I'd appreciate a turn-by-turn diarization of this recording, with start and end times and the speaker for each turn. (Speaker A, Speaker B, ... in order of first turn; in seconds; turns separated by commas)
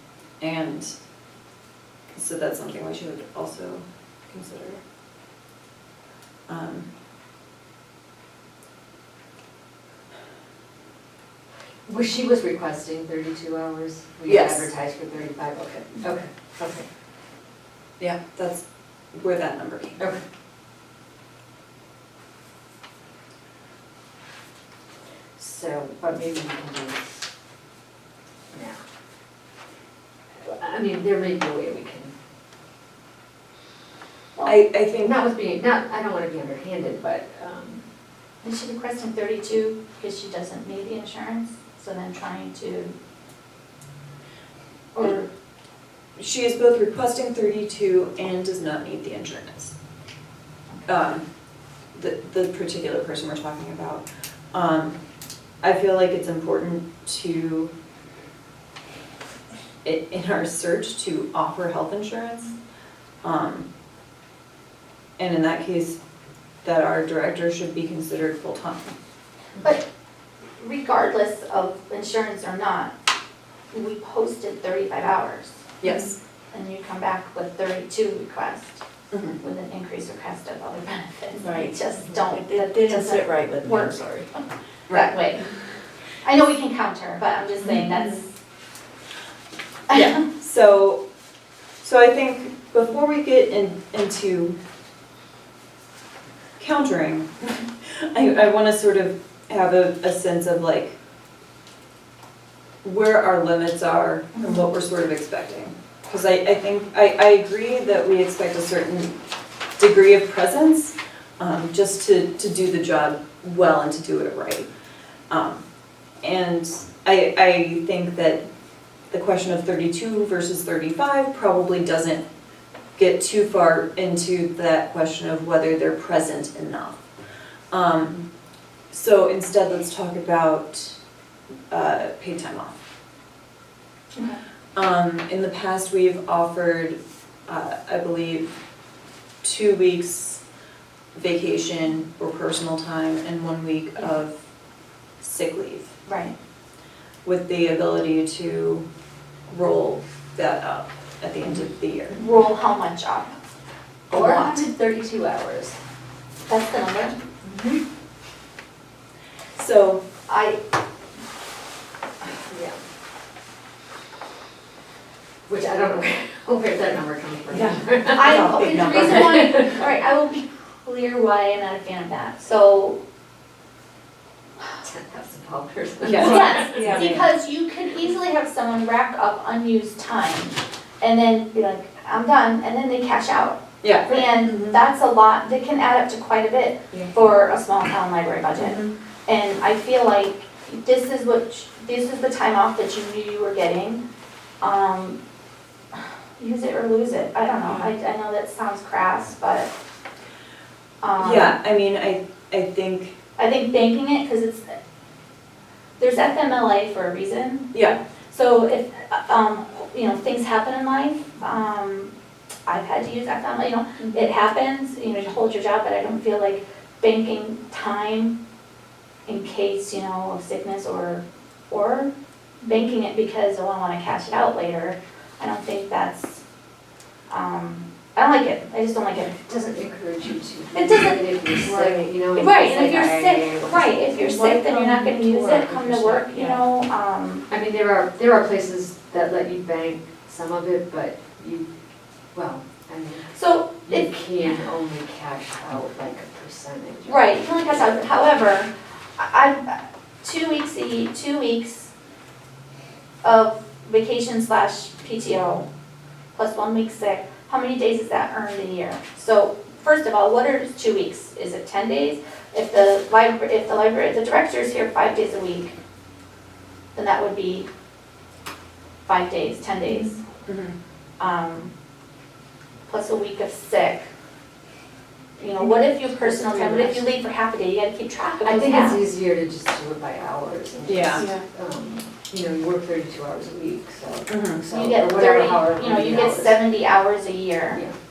Speaker A: 0.4-0.9, Speaker A: 2.1-4.8, Speaker A: 6.5-6.9, Speaker B: 11.8-16.9, Speaker A: 14.3-14.7, Speaker A: 18.0-20.0, Speaker B: 25.4-27.2, Speaker B: 28.5-28.8, Speaker B: 30.4-32.1, Speaker A: 34.4-35.2, Speaker B: 34.9-37.8, Speaker C: 38.4-42.9, Speaker C: 45.0-45.3, Speaker A: 46.2-49.7, Speaker A: 50.9-51.2, Speaker A: 51.9-55.0, Speaker A: 55.6-57.7, Speaker A: 59.8-62.5, Speaker A: 63.2-63.7, Speaker A: 65.2-66.0, Speaker A: 66.6-68.9, Speaker C: 69.6-69.8, Speaker C: 70.6-72.9, Speaker C: 73.7-75.7, Speaker A: 75.8-76.2, Speaker D: 75.8-76.1, Speaker C: 76.5-78.8, Speaker A: 79.1-79.4, Speaker C: 79.4-84.0, Speaker D: 81.4-84.3, Speaker C: 84.9-85.4, Speaker C: 86.2-88.3, Speaker D: 87.7-88.1, Speaker A: 89.9-91.0, Speaker A: 91.8-94.6, Speaker A: 96.6-101.0, Speaker A: 102.8-109.2, Speaker A: 109.8-114.7, Speaker A: 115.3-115.6, Speaker A: 116.2-118.4, Speaker A: 119.1-122.2, Speaker A: 123.0-127.0, Speaker A: 127.7-128.2, Speaker A: 128.9-131.0, Speaker A: 131.7-132.8, Speaker A: 134.8-138.6, Speaker A: 139.4-140.4, Speaker A: 141.2-144.4, Speaker A: 145.2-145.9, Speaker C: 146.1-146.3, Speaker A: 147.2-148.9, Speaker A: 149.5-152.2, Speaker C: 152.1-153.3, Speaker A: 154.1-154.6, Speaker B: 154.1-155.8, Speaker C: 156.5-157.2, Speaker B: 157.4-157.8, Speaker A: 159.6-160.0, Speaker C: 160.3-160.6, Speaker B: 162.5-162.8, Speaker B: 165.5-169.8, Speaker A: 167.5-169.6, Speaker C: 168.1-173.0, Speaker B: 174.8-177.0, Speaker A: 176.0-177.3, Speaker C: 176.1-194.0, Speaker D: 176.8-177.1, Speaker A: 183.8-184.8, Speaker A: 188.6-188.9, Speaker C: 194.6-195.2, Speaker C: 195.9-199.7, Speaker C: 201.0-201.6, Speaker A: 201.2-203.2, Speaker C: 203.4-204.8, Speaker C: 206.0-207.7, Speaker C: 208.3-212.1, Speaker C: 212.7-218.4, Speaker D: 214.0-214.3, Speaker C: 219.3-222.1, Speaker C: 222.7-226.4, Speaker C: 227.3-229.4, Speaker B: 229.4-233.9, Speaker C: 230.7-231.3, Speaker C: 232.3-237.4, Speaker D: 234.1-236.6, Speaker B: 237.5-241.7, Speaker B: 242.3-248.1, Speaker C: 243.3-244.1, Speaker C: 247.0-251.9, Speaker C: 253.2-255.7, Speaker C: 256.3-265.7, Speaker C: 266.9-267.7, Speaker C: 269.1-270.2, Speaker A: 270.5-270.7, Speaker C: 271.2-271.7, Speaker C: 272.9-274.1, Speaker C: 275.4-279.0, Speaker B: 276.2-277.0, Speaker B: 278.4-286.6, Speaker A: 280.9-281.3, Speaker D: 281.1-281.4, Speaker A: 284.3-284.6, Speaker C: 284.7-287.8